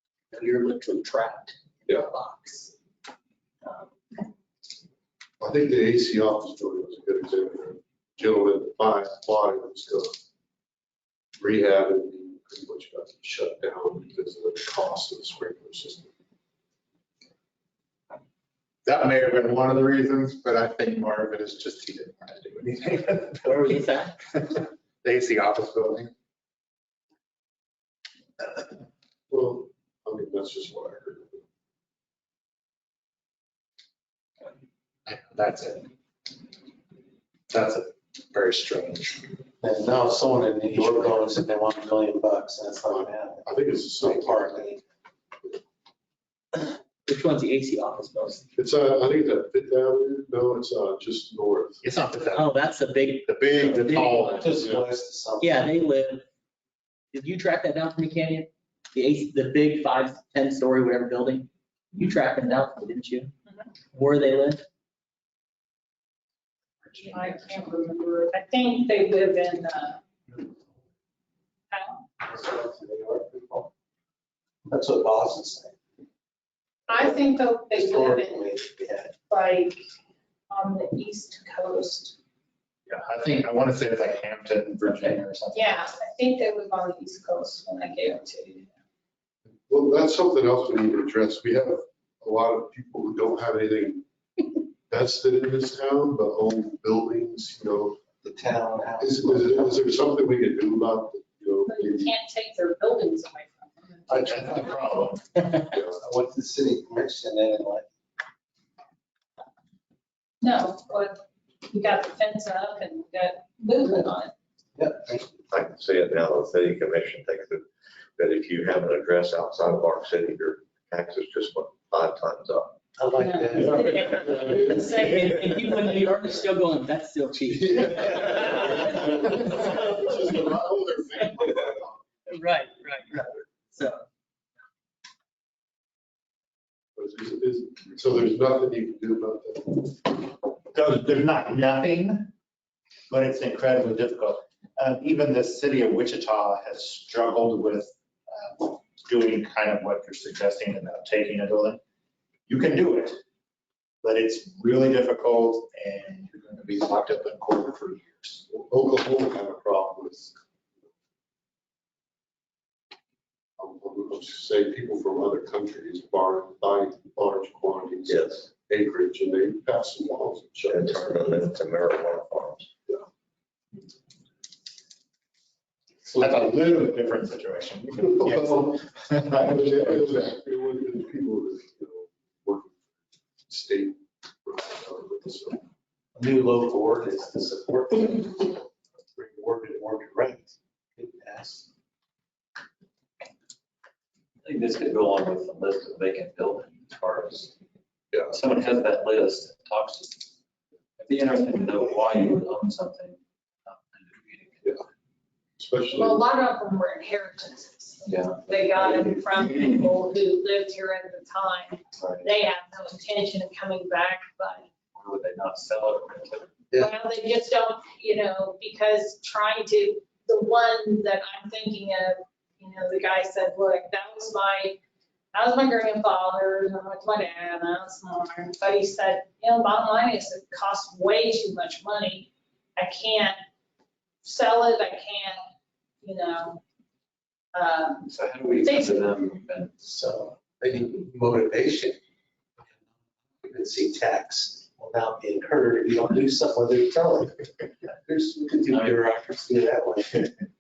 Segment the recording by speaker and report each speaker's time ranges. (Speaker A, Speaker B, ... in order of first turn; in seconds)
Speaker A: 0.3-2.7, 23.4-24.2, 46.5-48.4, 52.2-54.4, 55.4-56.2, 57.1-63.3, 63.9-64.6, 124.3-129.8, 132.3-134.0
Speaker B: 5.4-10.1, 11.4-16.1, 29.3-31.4, 40.7-41.3, 42.9-44.6, 48.5-51.8, 54.5-54.8, 89.7-94.0, 94.9-98.0, 99.0-102.1, 105.7-106.0, 123.6-124.8, 127.7-132.0, 136.9-140.1, 158.5-160.3, 163.6-171.1, 179.4-182.9, 183.5-185.6, 205.6-206.3
Speaker C: 18.8-23.8, 24.4-26.1, 35.0-35.9, 37.5-39.3, 51.8-52.5, 53.2-54.6, 82.9-85.9, 104.1-105.5, 140.7-142.3, 143.1-151.8, 152.5-153.2, 154.0-158.4, 176.2-180.4
Speaker D: 39.6-43.5, 44.0-44.8, 54.4-55.6, 72.2-73.7, 74.7-75.7, 76.9-79.1, 98.2-99.8, 106.0-107.8, 114.8-115.4, 123.0-124.2, 186.1-191.6, 239.8-242.0, 243.4-247.5, 248.0-250.3
Speaker E: 67.1-70.0, 71.7-72.1, 76.9-78.5, 79.3-79.8, 80.5-82.2, 85.5-88.7, 101.7-104.6, 110.4-114.3, 123.2-125.2, 205.9-214.7, 216.8-224.8, 225.3-233.4, 234.2-235.4, 236.0-236.6, 237.5-238.1, 238.6-239.1
Speaker F: 115.5-117.6, 118.2-122.8, 168.1-168.4, 170.7-172.7
Speaker G: 194.4-197.5, 198.3-200.3, 201.0-204.8, 208.0-209.2, 212.0-212.3, 214.9-216.5, 238.1-239.7, 248.6-249.2